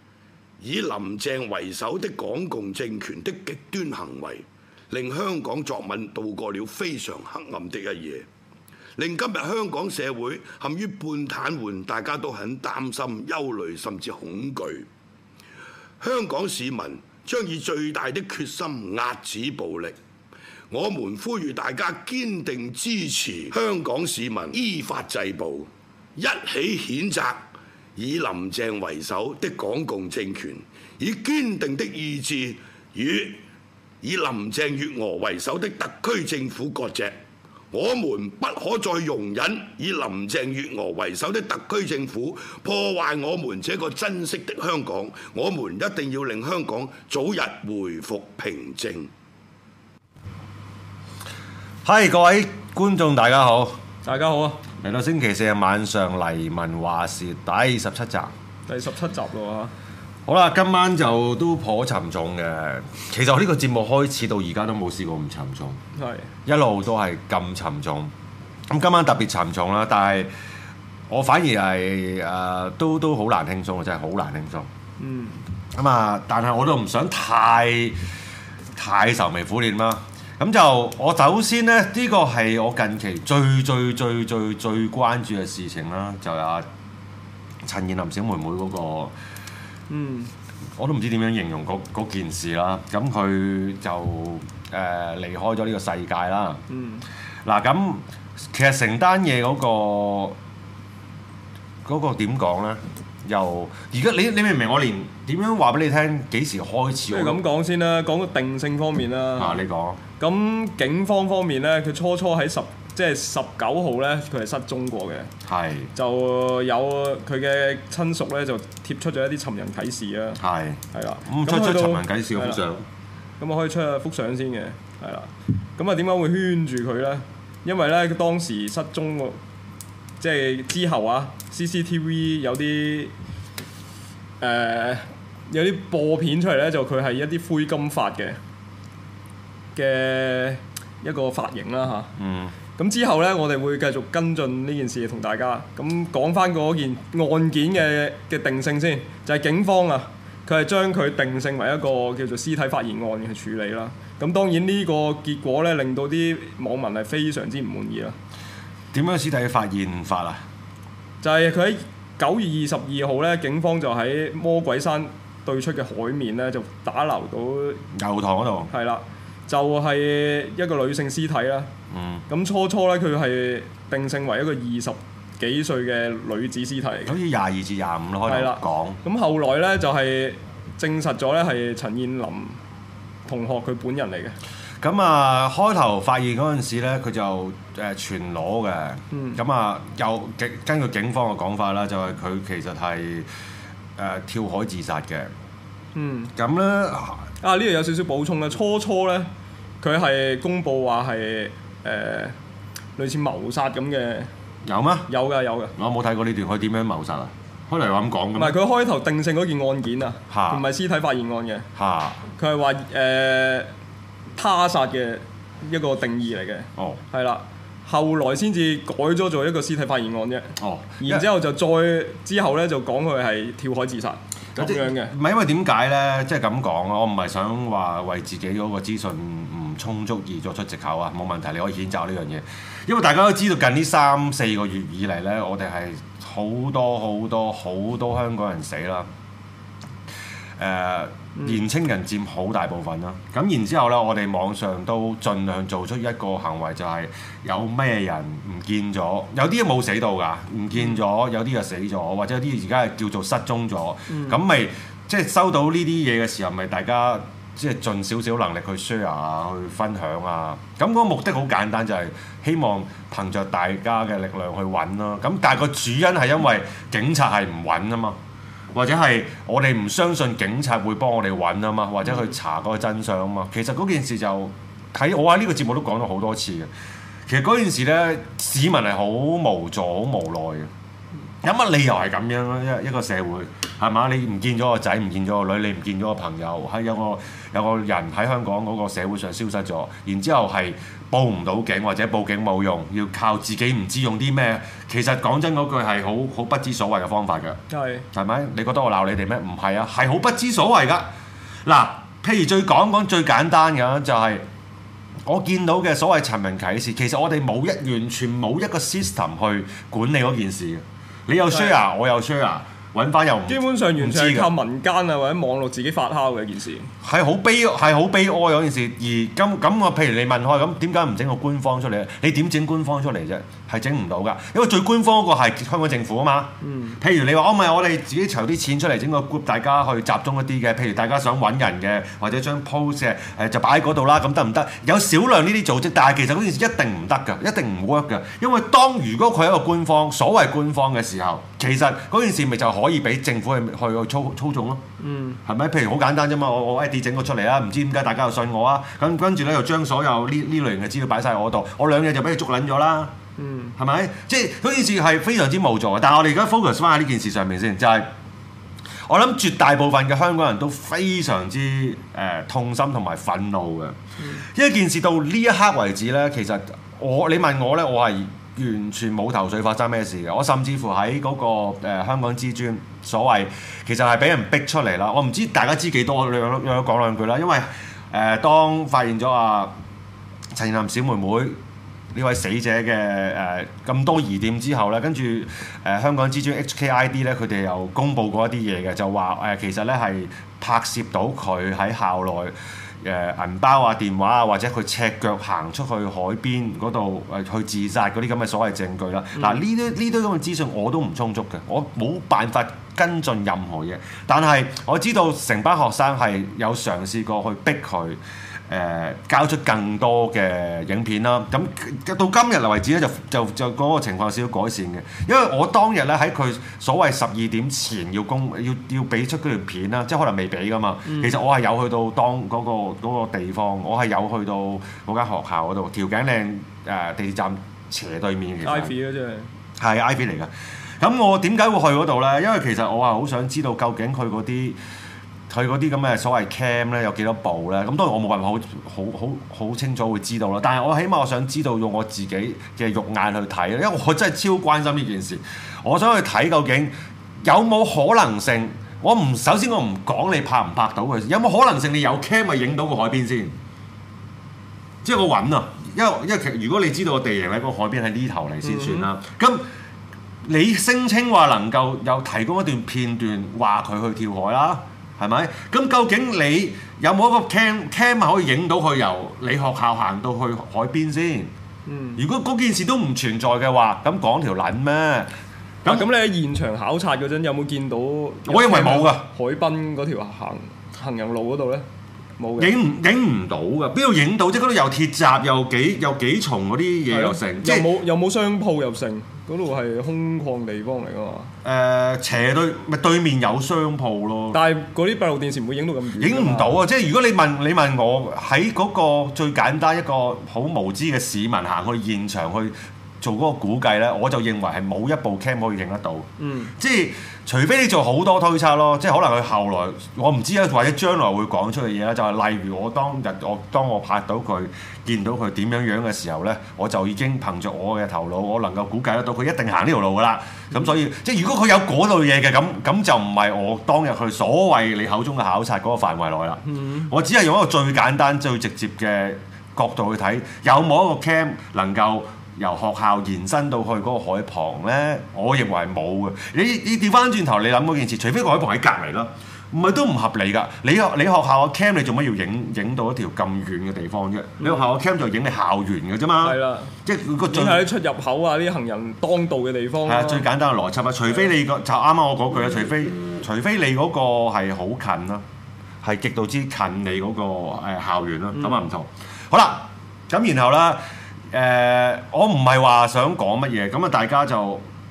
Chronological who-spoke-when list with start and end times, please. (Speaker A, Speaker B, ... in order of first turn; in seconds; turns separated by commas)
Speaker A: 0.6-8.3, Speaker A: 9.0-14.9, Speaker A: 16.0-20.0, Speaker A: 20.7-33.4, Speaker A: 34.0-37.2, Speaker A: 37.7-49.1, Speaker B: 51.8-53.8, Speaker C: 54.0-54.6, Speaker B: 54.8-58.3, Speaker C: 58.7-59.7, Speaker B: 60.3-65.8, Speaker C: 66.0-66.3, Speaker B: 66.5-68.1, Speaker B: 68.7-70.3, Speaker B: 71.1-74.7, Speaker C: 75.0-75.4, Speaker B: 75.7-78.0, Speaker B: 78.8-86.7, Speaker B: 87.6-89.1, Speaker C: 89.9-90.3, Speaker B: 90.8-96.6, Speaker C: 96.7-97.1, Speaker B: 97.5-100.4, Speaker B: 101.8-107.4, Speaker C: 107.1-109.6, Speaker B: 109.4-110.0, Speaker C: 110.2-115.3, Speaker B: 115.5-115.9, Speaker C: 116.0-120.4, Speaker B: 120.4-122.9, Speaker C: 120.9-122.6, Speaker C: 123.4-129.4, Speaker C: 130.2-133.1, Speaker C: 134.4-138.4, Speaker C: 139.8-142.1, Speaker B: 142.2-142.5, Speaker C: 142.8-158.2, Speaker B: 158.9-160.4, Speaker C: 161.2-167.8, Speaker B: 167.9-168.7, Speaker C: 168.7-171.7, Speaker B: 171.9-172.2, Speaker C: 172.3-177.2, Speaker B: 177.1-179.0, Speaker C: 178.3-182.6, Speaker C: 183.3-184.4, Speaker B: 184.8-193.3, Speaker C: 189.1-189.4, Speaker B: 194.0-195.3, Speaker C: 195.9-196.3, Speaker B: 196.4-197.2, Speaker C: 197.4-199.3, Speaker C: 199.8-202.4, Speaker C: 203.0-204.3, Speaker B: 204.7-205.1, Speaker C: 205.1-205.7, Speaker B: 205.8-208.6, Speaker C: 208.4-211.7, Speaker B: 210.3-210.6, Speaker B: 211.8-212.2, Speaker C: 212.4-213.7, Speaker C: 214.4-225.1, Speaker B: 220.6-221.3, Speaker B: 224.6-239.1, Speaker B: 240.6-268.2, Speaker C: 241.4-241.6, Speaker C: 254.1-254.4, Speaker B: 268.7-276.7, Speaker B: 277.3-280.7, Speaker B: 281.4-297.6, Speaker C: 297.7-298.1, Speaker B: 298.1-301.1, Speaker B: 301.6-304.5, Speaker B: 305.2-314.5, Speaker C: 313.5-316.9, Speaker B: 317.0-344.8, Speaker C: 326.6-327.0, Speaker C: 345.0-345.4, Speaker B: 345.5-353.1, Speaker C: 353.4-353.8, Speaker B: 353.8-358.1, Speaker B: 359.1-379.7, Speaker C: 364.2-364.4, Speaker B: 380.5-381.6, Speaker B: 382.1-428.9, Speaker C: 399.4-399.6, Speaker C: 421.1-421.4, Speaker C: 428.6-429.5, Speaker B: 429.8-434.8, Speaker B: 435.5-453.6, Speaker B: 455.0-459.6, Speaker C: 458.6-459.1, Speaker B: 460.4-471.5, Speaker C: 471.9-472.2, Speaker B: 472.2-475.3, Speaker B: 475.8-476.1, Speaker C: 475.9-481.9, Speaker B: 478.5-479.3, Speaker C: 482.4-482.8, Speaker B: 482.6-487.9, Speaker C: 487.1-491.5, Speaker B: 491.6-494.6, Speaker C: 494.5-496.8, Speaker B: 496.2-547.9, Speaker C: 506.4-506.7, Speaker C: 526.6-527.1, Speaker C: 544.6-544.9, Speaker C: 546.4-550.5, Speaker B: 550.0-555.5, Speaker B: 556.0-564.9, Speaker C: 558.6-558.9